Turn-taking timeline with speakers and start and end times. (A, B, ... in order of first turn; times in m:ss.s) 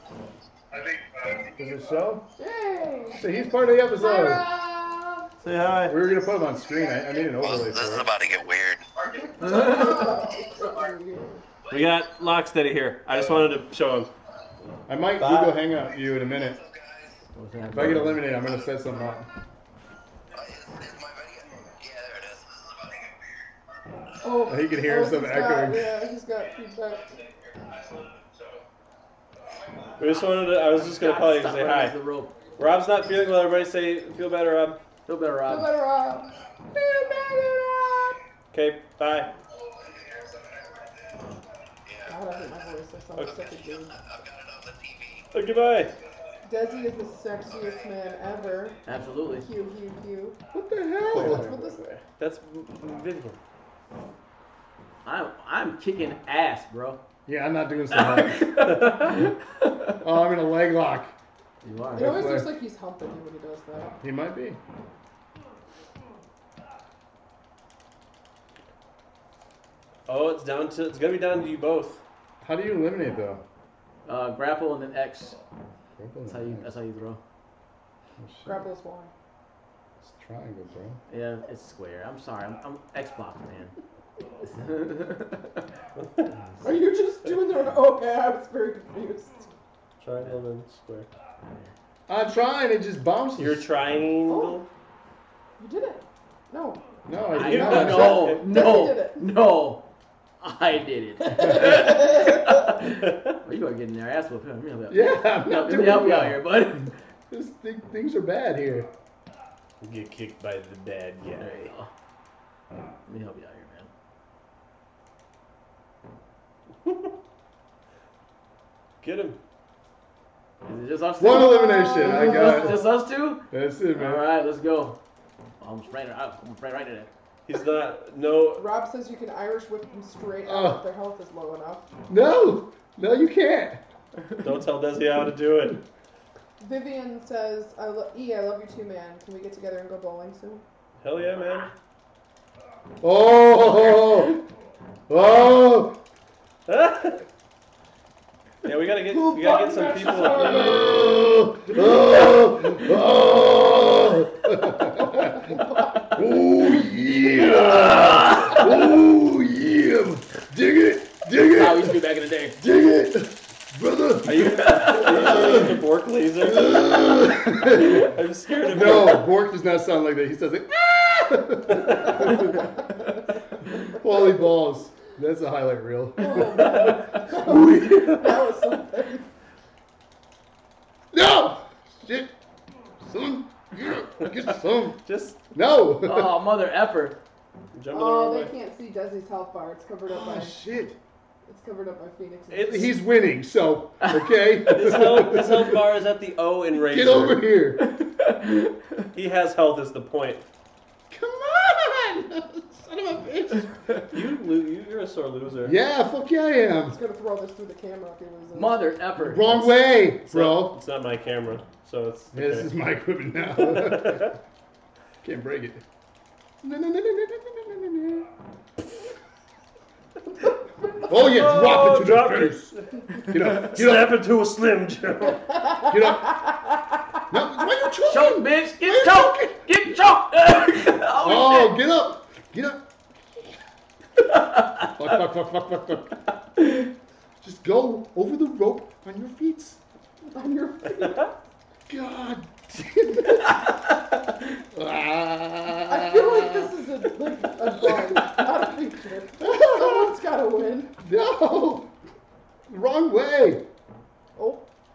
0:00.8-0:01.5 A
0:01.6-0:02.3 B
0:02.4-0:03.3 C
0:03.1-0:04.5 B
0:03.9-0:05.3 C
0:05.4-0:06.0 D
0:05.9-0:08.1 B
0:07.3-0:10.9 A
0:09.2-0:11.4 C
0:09.4-0:10.0 E
0:11.7-0:11.9 A
0:11.7-0:14.1 D
0:14.9-0:16.6 B
0:15.2-0:15.6 D
0:16.3-0:17.2 A
0:17.4-0:18.3 E
0:17.7-0:19.3 B
0:20.3-0:23.5 A
0:24.2-0:27.1 C
0:24.5-0:26.0 B
0:27.1-0:28.6 A
0:30.0-0:32.0 D
0:30.9-0:32.3 E
0:32.6-0:34.8 D
0:35.1-0:35.8 E
0:35.5-0:36.3 C
0:36.8-0:37.6 D
0:38.5-0:39.3 D
0:39.6-0:41.2 A
0:41.9-0:42.2 A
0:42.1-0:44.0 C
0:43.2-0:45.3 A
0:45.3-0:45.9 D
0:46.4-0:48.8 C
0:48.8-0:49.5 E
0:49.4-0:50.4 C
0:50.5-0:51.5 B
0:51.0-0:53.4 D
0:51.2-0:51.8 C
0:55.0-0:57.0 E
0:57.3-0:58.6 B
0:57.9-0:59.9 E
0:58.7-0:59.1 D
1:00.0-1:01.2 B
1:01.6-1:02.3 E
1:01.9-1:04.0 C
1:02.0-1:02.6 B
1:04.0-1:04.6 B
1:10.1-1:12.0 D
1:12.4-1:13.4 B
1:14.1-1:15.4 E
1:16.0-1:16.7 B
1:16.3-1:17.2 E
1:18.2-1:18.7 B
1:18.4-1:19.1 C
1:20.0-1:21.0 B
1:21.1-1:23.8 E
1:24.4-1:25.7 E
1:26.0-1:26.3 D
1:26.6-1:29.5 C
1:30.0-1:31.1 D
1:31.4-1:31.7 E
1:32.1-1:33.7 B
1:33.4-1:34.7 D
1:34.3-1:34.6 C
1:35.6-1:36.8 C
1:37.1-1:38.3 B
1:37.3-1:39.9 E
1:37.3-1:38.5 D
1:37.7-1:39.3 C
1:40.4-1:47.0 E
1:41.3-1:42.6 C
1:42.9-1:43.4 D
1:44.9-1:48.9 B
1:49.8-1:51.7 D
1:51.4-1:51.9 E
1:53.1-1:53.9 E
1:59.0-1:59.4 D
2:00.6-2:05.0 E
2:01.2-2:02.9 B
2:01.2-2:02.8 C
2:03.5-2:04.3 B
2:05.6-2:07.1 E
2:07.5-2:08.7 D
2:08.6-2:11.9 C
2:10.4-2:10.8 B
2:12.1-2:13.8 B
2:14.4-2:15.8 D
2:16.6-2:20.6 C
2:21.0-2:21.7 D
2:23.0-2:24.4 B
2:25.1-2:26.0 B
2:26.7-2:27.2 D
2:28.6-2:30.7 D
2:29.1-2:31.1 C
2:30.3-2:42.0 B
2:41.5-2:42.6 E
2:42.6-2:45.8 B
2:44.2-2:49.3 D
2:44.6-2:45.3 E
2:46.4-2:48.1 B
2:48.6-2:52.7 B
2:51.9-2:52.3 D
2:53.9-2:58.3 B
2:56.2-2:59.3 C
3:01.1-3:02.3 B
3:03.0-3:06.4 B
3:05.0-3:05.4 D
3:06.0-3:07.2 E
3:07.7-3:08.5 D
3:07.9-3:10.6 C
3:10.1-3:11.0 B
3:11.5-3:12.9 C
3:12.5-3:12.9 D
3:12.7-3:15.8 B
3:14.7-3:17.4 D
3:16.8-3:17.8 B
3:18.0-3:18.7 E
3:19.1-3:20.4 D
3:21.1-3:23.9 B
3:24.1-3:25.8 D
3:25.6-3:27.0 B
3:26.9-3:28.8 C
3:28.5-3:29.8 E
3:29.2-3:30.8 B
3:30.3-3:32.7 D
3:32.3-3:34.4 B
3:33.6-3:34.3 D
3:35.2-3:35.8 B
3:36.6-3:38.3 B
3:41.0-3:44.2 B
3:41.1-3:45.6 D
3:45.9-3:46.4 B
3:47.3-3:50.0 B
3:48.1-3:51.8 E
3:51.2-3:52.8 B
3:54.3-3:54.9 E
3:55.0-3:56.2 B
3:56.6-3:56.8 E
3:57.4-3:59.8 B
4:00.3-4:01.4 C
4:01.9-4:03.8 B
4:04.7-4:06.7 B
4:05.8-4:10.9 C
4:07.8-4:08.4 B
4:09.4-4:10.2 B
4:11.0-4:11.9 B
4:12.7-4:13.6 B
4:14.4-4:14.6 C